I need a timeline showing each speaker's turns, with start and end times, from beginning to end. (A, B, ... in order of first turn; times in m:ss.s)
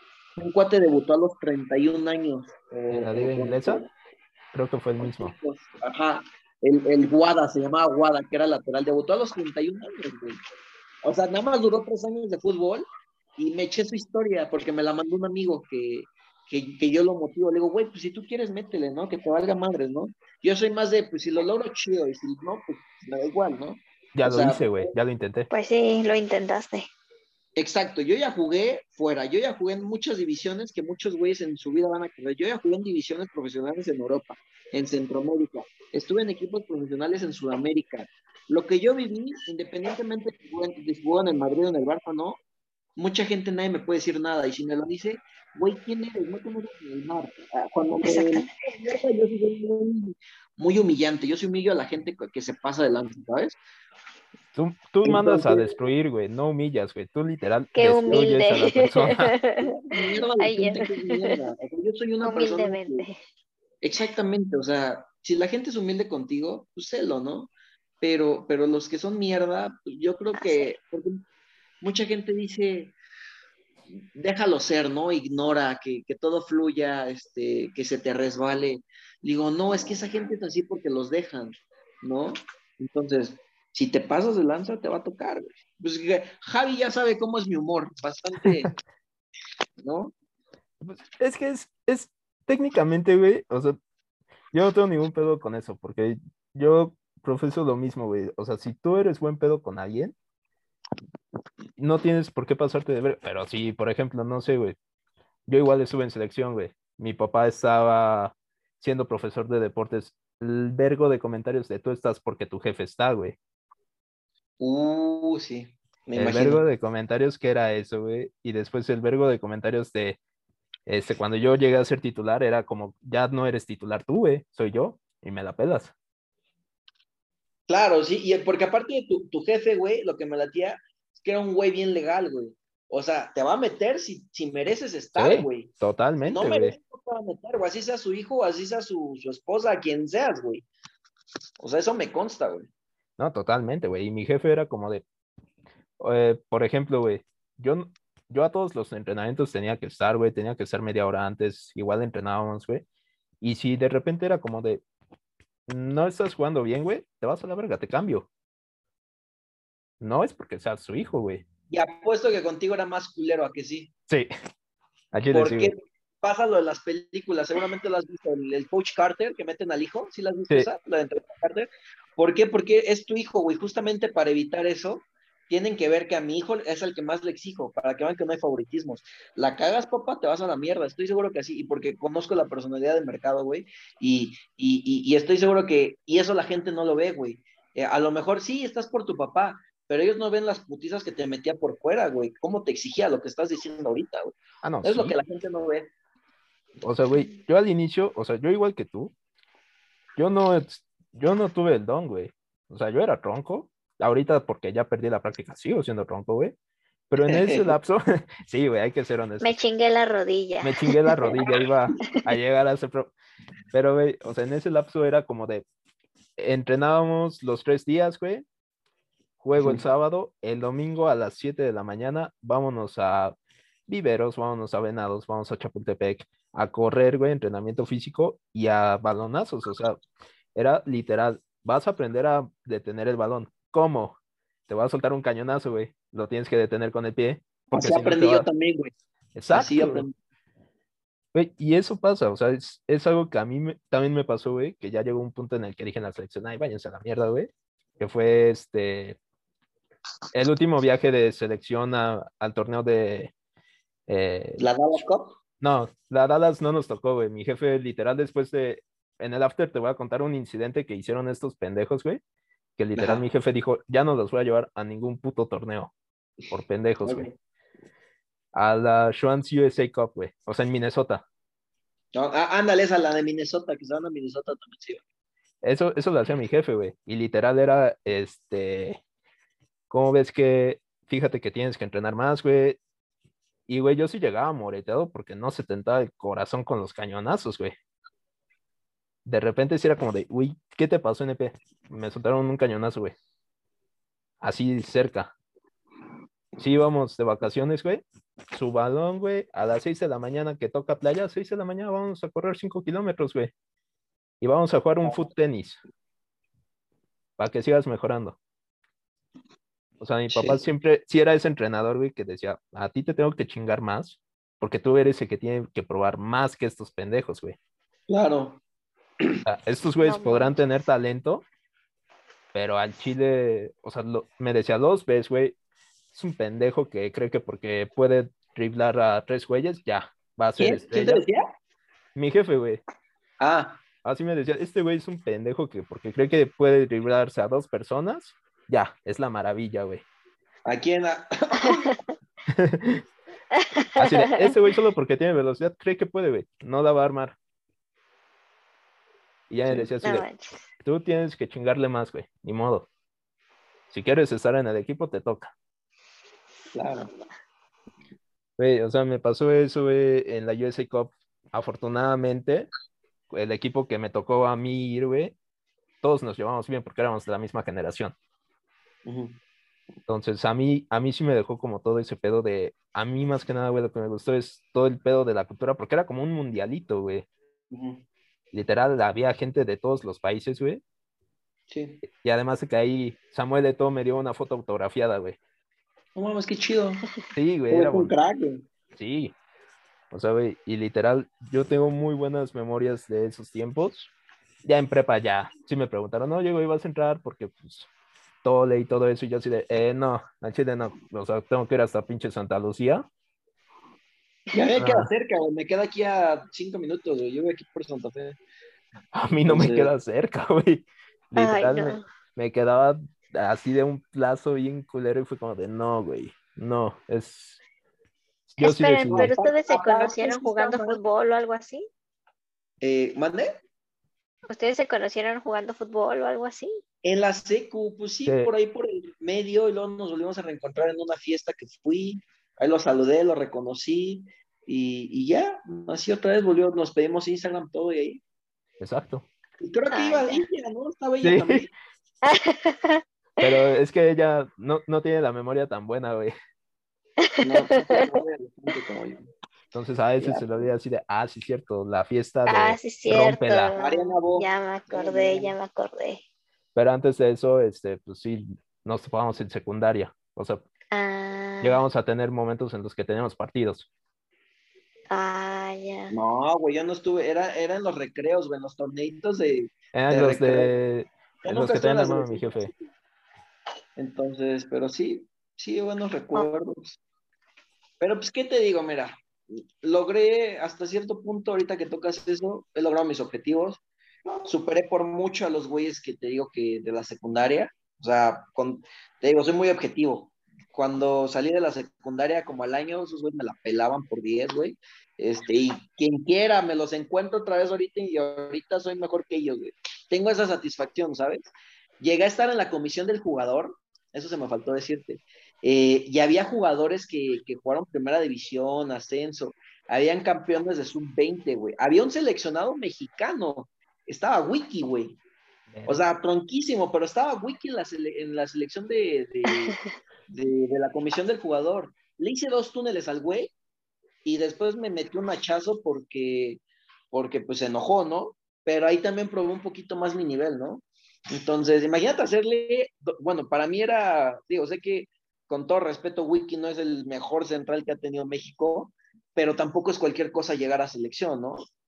0:00.4-0:03.9 A
0:02.9-0:03.8 B
0:04.5-0:05.4 B
0:05.0-0:10.4 A
0:11.0-0:24.9 A
0:24.2-0:25.5 B
0:25.5-0:26.9 C
0:27.6-0:42.4 A
0:43.0-0:53.6 A
0:48.0-0:48.5 C
0:54.5-0:59.4 B
0:55.0-0:55.7 A
0:57.8-1:01.4 C
0:59.6-1:03.1 A
1:02.2-1:03.2 C
1:03.8-1:11.2 A
1:10.4-1:10.7 C
1:11.8-1:13.0 A
1:14.0-1:28.7 A
1:29.8-1:30.1 A
1:30.8-1:33.8 B
1:34.5-1:40.2 B
1:41.8-1:44.8 B
1:45.5-1:53.4 B
1:54.6-1:56.6 A
1:56.2-2:00.2 B
2:00.9-2:05.9 B
2:07.7-2:15.7 A
2:15.2-2:16.8 B
2:16.3-2:20.7 A
2:21.6-2:22.7 A
2:23.2-2:25.0 B
2:26.0-2:32.8 B
2:33.4-2:34.8 B
2:35.7-2:38.3 B
2:40.0-2:41.4 B
2:41.7-2:43.9 A
2:45.1-2:45.7 B
2:45.3-3:15.9 A
3:14.6-3:15.2 B
3:16.8-3:19.1 B
3:20.2-3:26.6 B
3:27.1-3:29.5 B
3:27.2-3:27.7 A
3:29.4-3:31.5 C
3:30.6-3:33.1 B
3:33.7-3:35.6 B
3:36.4-3:38.4 B
3:39.4-3:43.4 B
3:43.9-3:50.0 B
3:50.6-3:54.2 B
3:54.7-3:58.5 B
3:57.7-3:58.9 A
3:59.4-4:00.1 B
3:59.5-4:00.2 A
4:01.3-4:09.2 B
4:10.3-4:13.3 B
4:14.1-4:14.6 B
4:14.6-4:15.4 A
4:15.6-4:22.2 B
4:22.8-4:25.9 B
4:23.0-4:23.2 A
4:26.5-4:27.3 B
4:27.0-4:27.4 A
4:28.5-4:31.2 B
4:32.2-4:35.0 A
4:35.6-4:39.0 B
4:39.9-4:42.8 B
4:43.7-4:47.8 B
4:49.2-4:53.2 B
4:54.4-4:55.3 B
4:56.6-5:03.5 B
5:04.4-5:05.8 B
5:07.4-5:08.4 B
5:10.0-5:17.6 B
5:10.3-5:10.6 A
5:18.1-5:18.6 A
5:19.5-5:21.4 B
5:20.0-5:20.6 C
5:22.5-5:25.6 B
5:26.1-5:31.2 B
5:30.6-5:31.4 A
5:32.2-5:32.8 B
5:33.4-5:33.8 A
5:34.0-5:40.0 B
5:40.7-5:41.9 A
5:41.6-5:42.0 C
5:42.5-5:43.0 B
5:43.6-5:44.5 C
5:44.0-5:47.4 B
5:49.5-5:50.3 B
5:49.7-5:49.9 A
5:50.0-5:50.5 C
5:50.8-5:52.9 B
5:53.9-5:55.5 B
5:56.7-5:57.1 A
5:58.6-6:02.7 B
6:03.3-6:05.4 B
6:06.0-6:08.2 B
6:09.1-6:09.4 A
6:10.1-6:17.3 B
6:17.7-6:18.0 A
6:18.5-6:20.8 B
6:21.7-6:22.0 A
6:22.0-6:25.4 B
6:26.2-6:27.1 A
6:27.4-6:28.1 B
6:27.7-6:28.7 A
6:29.0-6:29.3 B
6:30.1-6:34.1 B
6:34.6-6:37.9 B
6:38.4-6:43.0 B
6:44.5-6:48.4 A
6:44.8-6:45.1 B
6:49.1-6:57.6 B
6:49.5-6:49.9 A
6:51.4-6:52.1 C
6:58.5-6:59.3 B
6:58.6-7:01.9 C
6:59.1-7:01.0 A
7:02.8-7:03.5 A
7:04.5-7:06.8 C
7:07.0-7:18.2 A
7:08.3-7:08.5 B
7:18.8-7:19.3 B
7:19.6-7:21.7 A
7:19.9-7:20.4 C
7:21.2-7:21.6 B
7:22.2-7:23.5 C
7:23.4-7:26.3 B
7:27.2-7:28.0 C
7:27.4-7:29.3 A
7:29.7-7:33.7 B
7:30.2-7:30.7 A
7:32.5-7:36.2 C
7:33.8-7:35.6 A
7:36.8-7:40.6 B
7:40.9-7:41.8 C
7:41.6-7:43.9 B
7:45.1-7:46.2 C
7:46.1-7:50.7 A
7:49.9-7:52.7 B
7:51.4-7:52.8 A
7:54.0-7:57.0 A
7:58.0-8:03.8 A
8:04.5-8:35.2 A
8:35.7-8:36.1 B
8:35.9-8:39.8 A
8:39.5-8:39.8 C
8:40.3-8:43.5 A
8:44.2-9:01.7 A